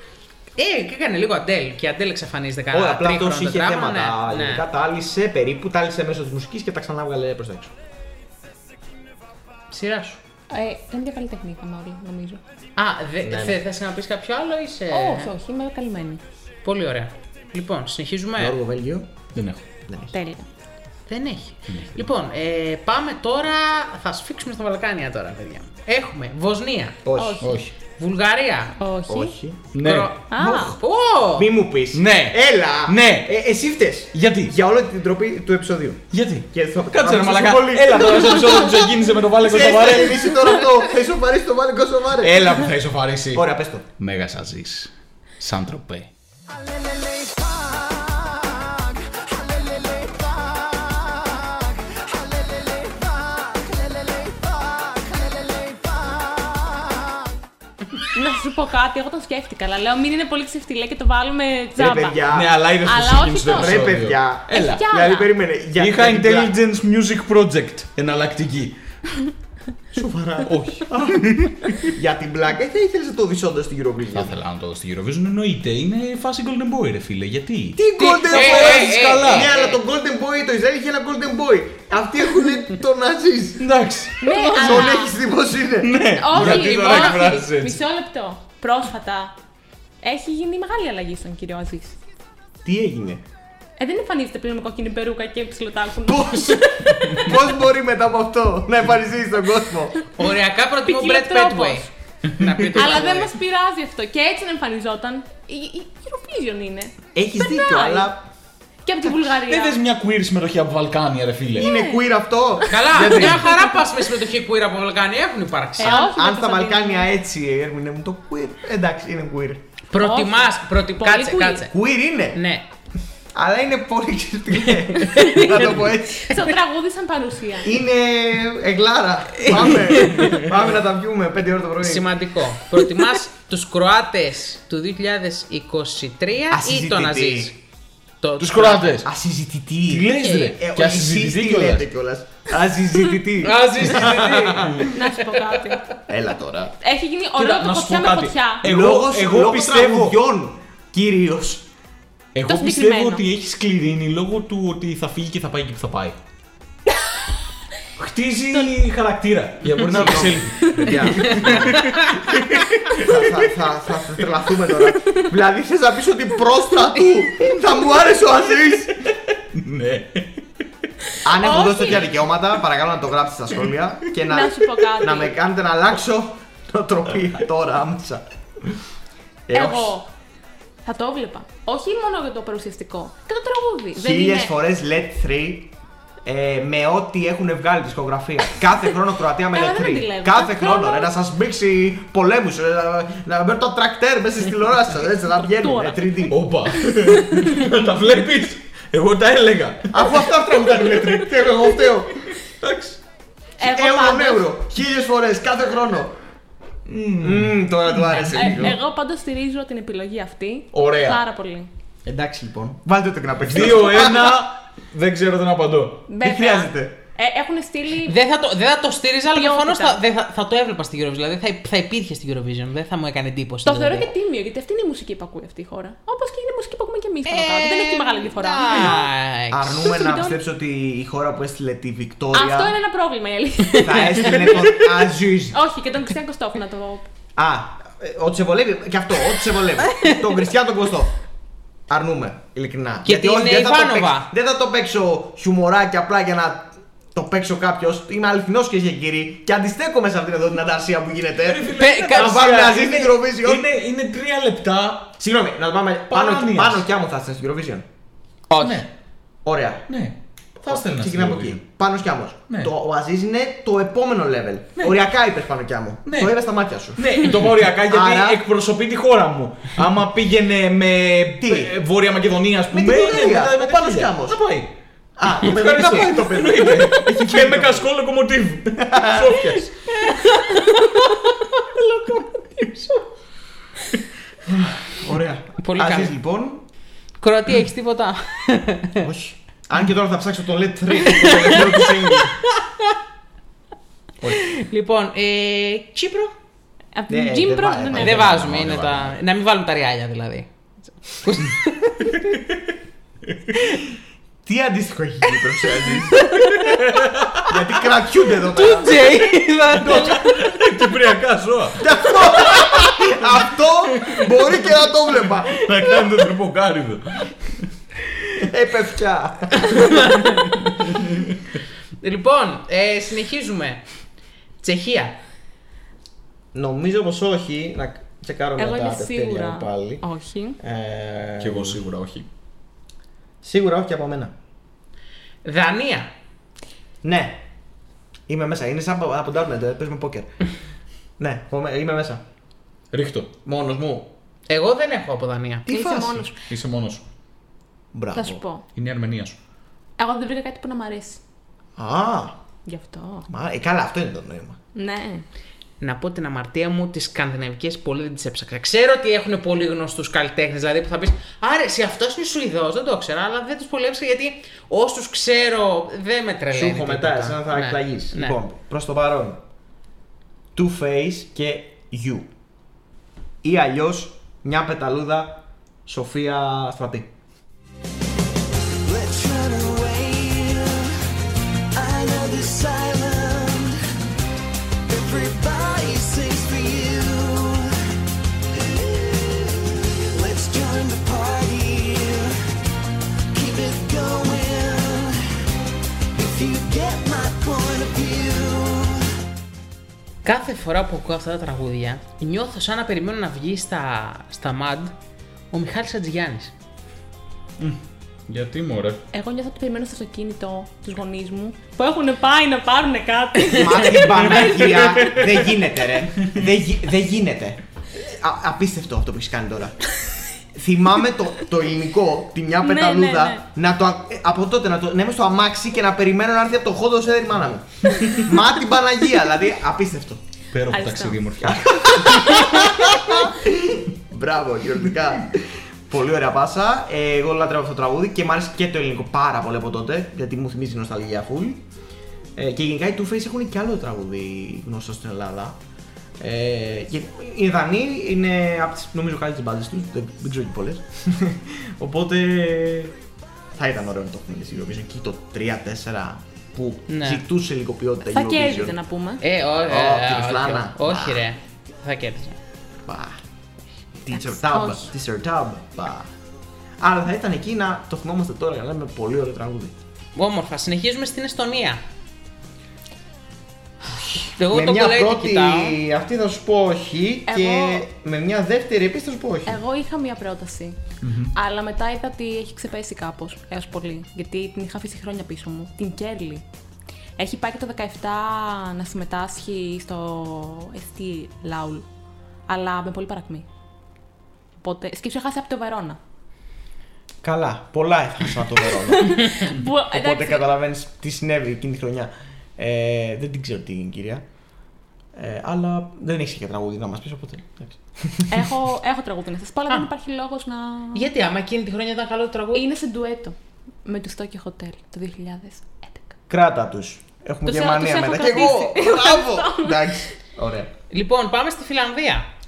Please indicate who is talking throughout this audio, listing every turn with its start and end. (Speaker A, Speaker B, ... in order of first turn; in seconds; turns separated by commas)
Speaker A: 0.6-4.7, Speaker B: 2.7-7.8, Speaker A: 9.7-10.2, Speaker C: 10.5-12.4, Speaker A: 12.8-15.3, Speaker B: 13.2-13.6, Speaker C: 14.9-16.2, Speaker A: 16.6-18.6, Speaker B: 18.4-19.1, Speaker D: 19.3-19.6, Speaker B: 19.9-20.1, Speaker C: 20.1-20.5, Speaker A: 21.1-27.0, Speaker D: 21.7-22.1, Speaker B: 27.0-27.6, Speaker C: 27.1-27.6, Speaker D: 27.4-27.7, Speaker A: 28.0-28.8, Speaker C: 28.8-29.4, Speaker B: 29.1-29.7, Speaker D: 29.7-30.1, Speaker A: 29.8-31.5, Speaker C: 30.3-30.8, Speaker B: 30.3-30.8, Speaker B: 31.3-42.7, Speaker D: 31.9-33.4, Speaker D: 34.1-34.5, Speaker D: 36.1-40.5, Speaker D: 42.2-43.5, Speaker B: 43.3-43.9, Speaker D: 44.0-46.1, Speaker E: 49.5-50.1, Speaker E: 52.4-56.1, Speaker C: 58.1-62.2, Speaker B: 61.8-62.6, Speaker D: 62.3-64.8, Speaker C: 62.8-63.9, Speaker B: 63.5-66.6, Speaker C: 64.5-65.3, Speaker D: 65.8-68.8, Speaker B: 69.9-74.3, Speaker D: 70.4-71.9, Speaker D: 74.1-79.5, Speaker B: 77.8-83.7, Speaker A: 78.0-79.8, Speaker D: 83.6-84.9, Speaker C: 84.2-85.2, Speaker B: 84.2-86.5, Speaker D: 85.8-87.8, Speaker C: 86.1-89.3, Speaker A: 86.5-87.4, Speaker C: 90.0-92.0, Speaker B: 92.6-93.2, Speaker C: 93.8-97.4, Speaker B: 96.0-100.0, Speaker A: 100.2-103.3, Speaker C: 100.8-101.9, Speaker C: 102.7-108.1, Speaker B: 107.2-108.3, Speaker C: 108.8-109.8, Speaker D: 109.5-111.7, Speaker B: 111.5-113.7, Speaker C: 111.6-113.8, Speaker A: 112.7-116.0, Speaker C: 115.8-117.1, Speaker B: 115.8-119.6, Speaker A: 119.9-121.7, Speaker C: 120.0-121.7, Speaker B: 121.7-122.4, Speaker A: 122.3-122.7, Speaker B: 123.3-126.4, Speaker A: 125.0-125.8, Speaker C: 126.2-127.8, Speaker B: 127.6-132.1, Speaker A: 129.4-130.5, Speaker A: 131.8-137.6, Speaker B: 136.5-137.6, Speaker A: 138.2-138.9, Speaker D: 138.4-139.1, Speaker B: 138.9-144.9, Speaker D: 139.9-141.9, Speaker A: 140.2-140.5, Speaker A: 143.4-144.9, Speaker C: 144.9-145.9, Speaker B: 146.1-146.8, Speaker C: 146.8-148.6, Speaker D: 147.4-150.2, Speaker B: 148.6-151.7, Speaker D: 152.3-156.2, Speaker C: 152.5-153.2, Speaker D: 158.0-163.5, Speaker B: 159.7-162.0, Speaker B: 162.9-168.9, Speaker D: 168.9-170.4, Speaker B: 171.2-178.8, Speaker C: 171.4-172.2, Speaker C: 174.2-175.4, Speaker B: 179.5-180.0, Speaker C: 179.5-180.1, Speaker C: 180.8-184.5, Speaker B: 183.9-185.7, Speaker B: 186.2-196.4, Speaker C: 189.5-191.1, Speaker C: 195.4-196.3, Speaker D: 196.3-201.6, Speaker B: 199.9-202.2, Speaker D: 202.3-203.0, Speaker C: 203.6-204.5, Speaker B: 203.6-206.2, Speaker D: 206.9-208.7, Speaker B: 207.2-208.8, Speaker C: 208.3-211.7, Speaker D: 210.7-211.2, Speaker B: 212.1-214.4, Speaker D: 212.2-212.6, Speaker D: 213.4-216.1, Speaker C: 216.1-218.2, Speaker B: 216.2-217.0, Speaker A: 218.1-224.1, Speaker C: 219.3-220.0, Speaker C: 223.6-229.1, Speaker A: 227.3-229.9, Speaker B: 229.5-232.8, Speaker C: 229.8-230.4, Speaker C: 232.3-234.7, Speaker B: 233.8-235.6, Speaker C: 235.5-237.1, Speaker B: 237.4-241.1, Speaker B: 241.9-253.7, Speaker A: 243.1-244.3, Speaker D: 251.4-255.2, Speaker A: 251.8-252.4, Speaker B: 255.2-257.9, Speaker D: 256.1-256.9, Speaker A: 258.5-258.8, Speaker D: 258.6-258.9, Speaker B: 259.4-259.9, Speaker D: 259.9-261.6, Speaker B: 260.6-268.4, Speaker D: 264.8-265.0, Speaker D: 266.1-266.4, Speaker D: 267.0-274.7, Speaker B: 271.4-271.7, Speaker B: 272.7-274.4, Speaker B: 275.2-277.9, Speaker D: 275.4-280.1, Speaker B: 278.8-279.6, Speaker D: 281.7-282.7, Speaker B: 284.5-286.6, Speaker A: 285.6-286.1, Speaker A: 287.2-289.1, Speaker B: 289.0-292.4, Speaker A: 291.1-292.2, Speaker A: 294.5-296.3, Speaker C: 296.9-298.2, Speaker B: 297.1-298.5, Speaker A: 298.0-302.1, Speaker D: 298.1-299.2, Speaker D: 302.3-302.6, Speaker B: 304.4-306.5, Speaker D: 306.5-307.5, Speaker B: 307.4-309.2, Speaker A: 308.5-310.2, Speaker D: 309.8-312.8, Speaker B: 311.8-315.9, Speaker D: 314.1-314.6, Speaker D: 315.3-317.6, Speaker B: 318.4-320.1, Speaker A: 319.7-320.5, Speaker A: 322.0-323.8, Speaker A: 324.6-325.2, Speaker B: 326.5-330.0, Speaker C: 328.6-330.6, Speaker B: 330.6-331.8, Speaker D: 331.4-332.3, Speaker B: 333.4-334.3, Speaker A: 335.4-336.1, Speaker B: 337.0-337.4, Speaker B: 338.3-340.3, Speaker B: 341.2-342.2, Speaker D: 342.9-343.3, Speaker B: 343.4-344.1, Speaker A: 344.5-345.7, Speaker B: 345.7-346.3, Speaker C: 345.7-346.3, Speaker D: 346.4-347.1, Speaker B: 347.9-348.4, Speaker C: 348.1-348.6, Speaker D: 348.8-349.4, Speaker C: 350.0-351.2, Speaker B: 351.8-352.4, Speaker C: 352.7-353.3, Speaker B: 353.3-354.6, Speaker C: 354.8-355.2, Speaker A: 355.8-368.4, Speaker B: 366.5-369.4, Speaker B: 370.5-372.3, Speaker B: 373.4-377.1, Speaker E: 378.9-380.8, Speaker E: 381.8-383.7, Speaker E: 384.9-387.7, Speaker E: 388.8-392.3, Speaker E: 393.3-395.1, Speaker E: 396.1-398.9, Speaker A: 400.2-404.9, Speaker A: 405.5-406.5, Speaker D: 407.6-409.1, Speaker C: 409.1-415.2, Speaker B: 413.5-419.9, Speaker B: 420.5-430.2, Speaker C: 422.6-423.4, Speaker D: 430.5-432.8, Speaker C: 430.7-431.2, Speaker B: 431.4-441.6, Speaker B: 442.4-445.6, Speaker B: 446.2-453.0, Speaker B: 453.6-458.8, Speaker A: 456.9-457.2, Speaker C: 458.1-459.2, Speaker A: 459.2-462.4, Speaker B: 459.5-461.3, Speaker B: 462.9-463.2, Speaker B: 464.0-466.1, Speaker C: 464.3-464.9, Speaker B: 466.8-469.8, Speaker A: 470.1-471.8, Speaker B: 473.9-479.6, Speaker A: 474.4-475.8, Speaker C: 477.3-477.9, Speaker C: 479.5-480.8, Speaker D: 481.0-481.4, Speaker C: 481.3-486.4, Speaker C: 487.2-491.9, Speaker C: 492.5-493.4, Speaker C: 494.6-496.0, Speaker B: 497.2-504.2, Speaker C: 499.0-500.4, Speaker B: 505.1-508.5, Speaker C: 508.3-511.1, Speaker A: 510.9-512.6, Speaker C: 512.5-516.2, Speaker B: 516.3-520.7, Speaker C: 517.5-520.0, Speaker A: 520.9-522.3